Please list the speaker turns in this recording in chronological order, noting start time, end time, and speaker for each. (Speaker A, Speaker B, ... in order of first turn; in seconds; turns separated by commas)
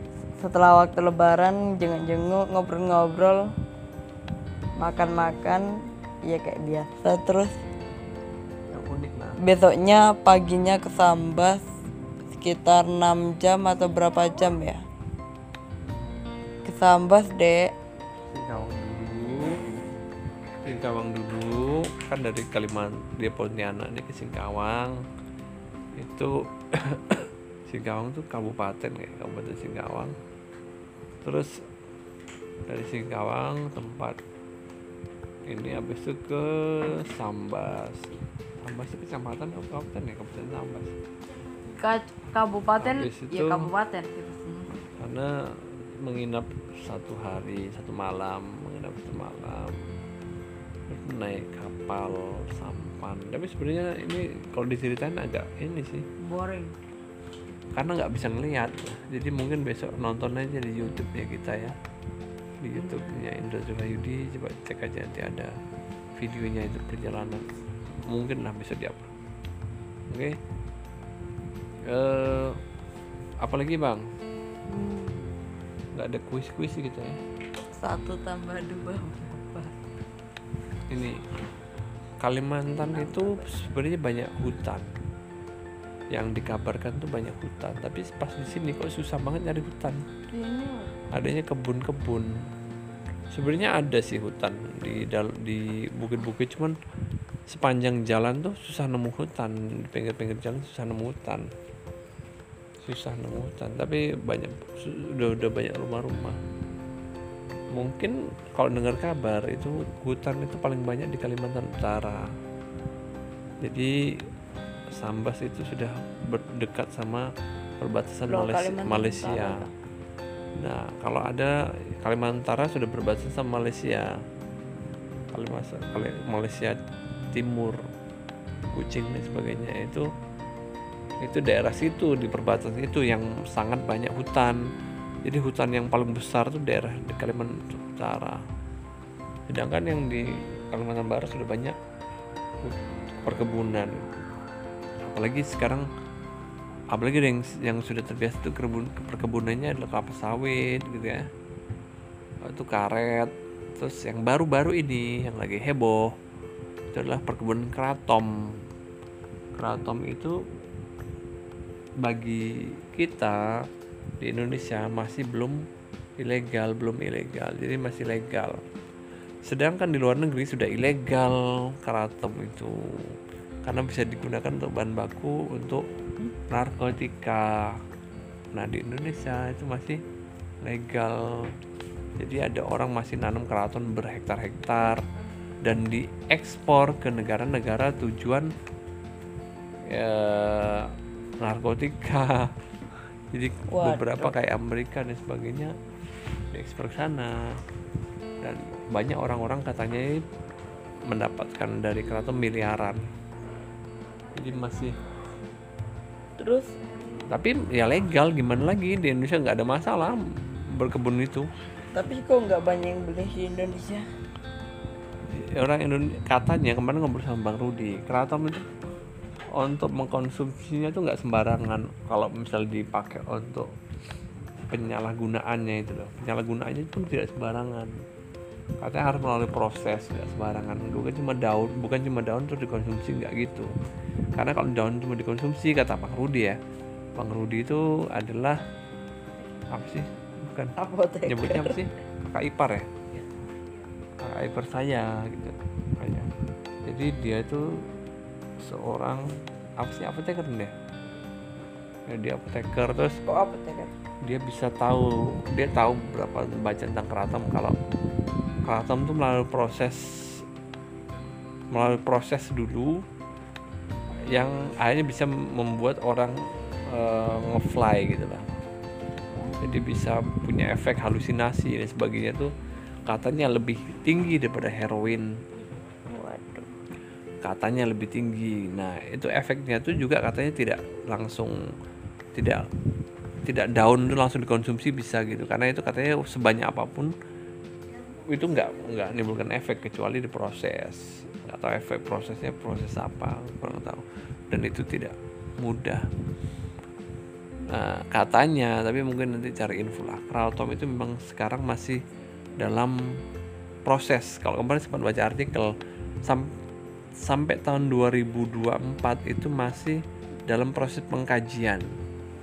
Speaker A: 0.4-3.5, Speaker A: 4.8-5.7, Speaker A: 6.2-7.5, Speaker B: 8.7-9.4, Speaker A: 9.4-11.6, Speaker A: 12.3-14.8, Speaker A: 16.6-17.7, Speaker B: 18.3-19.6, Speaker B: 20.6-25.0, Speaker B: 25.9-30.1, Speaker B: 31.2-31.5, Speaker B: 32.7-34.2, Speaker B: 35.5-40.9, Speaker A: 41.8-44.8, Speaker B: 42.8-43.7, Speaker B: 45.0-49.9, Speaker B: 50.9-56.0, Speaker A: 56.2-56.8, Speaker B: 57.7-61.8, Speaker B: 62.6-65.5, Speaker B: 66.1-67.5, Speaker B: 68.1-69.1, Speaker B: 70.1-70.4, Speaker B: 71.9-72.6, Speaker B: 73.4-74.0, Speaker A: 74.7-75.3, Speaker B: 75.9-77.2, Speaker A: 77.7-79.8, Speaker B: 80.9-81.2, Speaker B: 82.2-84.9, Speaker A: 82.8-83.5, Speaker B: 86.1-90.0, Speaker A: 90.3-90.9, Speaker B: 91.1-92.3, Speaker B: 93.3-96.8, Speaker B: 97.5-101.5, Speaker B: 102.8-106.4, Speaker B: 107.7-112.2, Speaker B: 113.6-113.9, Speaker B: 115.0-117.2, Speaker B: 117.8-119.6, Speaker A: 118.3-119.7, Speaker B: 120.6-124.1, Speaker B: 125.3-126.8, Speaker B: 127.3-127.8, Speaker B: 128.7-130.1, Speaker B: 131.2-134.6, Speaker B: 135.2-138.4, Speaker B: 139.5-141.8, Speaker B: 142.6-144.0, Speaker B: 145.0-145.9, Speaker B: 146.9-151.2, Speaker B: 152.5-156.1, Speaker B: 156.9-158.3, Speaker B: 159.6-160.3, Speaker B: 162.0-163.4, Speaker B: 164.2-165.6, Speaker B: 166.2-168.6, Speaker B: 169.4-175.8, Speaker B: 176.5-177.7, Speaker B: 178.5-180.0, Speaker B: 180.6-181.5, Speaker B: 182.2-185.0, Speaker B: 185.6-188.5, Speaker B: 189.9-192.5, Speaker B: 193.3-195.7, Speaker A: 193.7-194.3, Speaker B: 196.5-197.4, Speaker B: 198.4-200.2, Speaker B: 201.1-203.0, Speaker B: 204.3-204.9, Speaker A: 206.4-206.7, Speaker B: 207.3-211.5, Speaker A: 211.9-214.0, Speaker B: 215.3-218.6, Speaker B: 219.5-223.7, Speaker B: 224.7-227.9, Speaker B: 228.8-233.7, Speaker B: 234.3-236.6, Speaker B: 237.2-238.6, Speaker B: 239.7-240.7, Speaker A: 240.8-241.8, Speaker B: 241.2-242.9, Speaker B: 244.2-246.3, Speaker B: 246.8-247.6, Speaker B: 248.6-249.3, Speaker B: 249.8-250.7, Speaker B: 252.1-253.2, Speaker A: 253.2-253.9, Speaker B: 254.2-257.8, Speaker B: 258.6-260.4, Speaker B: 261.7-263.0, Speaker B: 264.3-268.5, Speaker B: 269.6-272.5, Speaker B: 273.1-275.3, Speaker A: 276.1-276.7, Speaker B: 277.4-281.6, Speaker B: 282.3-282.6, Speaker B: 283.4-287.1, Speaker B: 288.2-296.0, Speaker B: 297.7-302.1, Speaker B: 302.6-303.0, Speaker B: 303.8-306.5, Speaker B: 307.2-311.9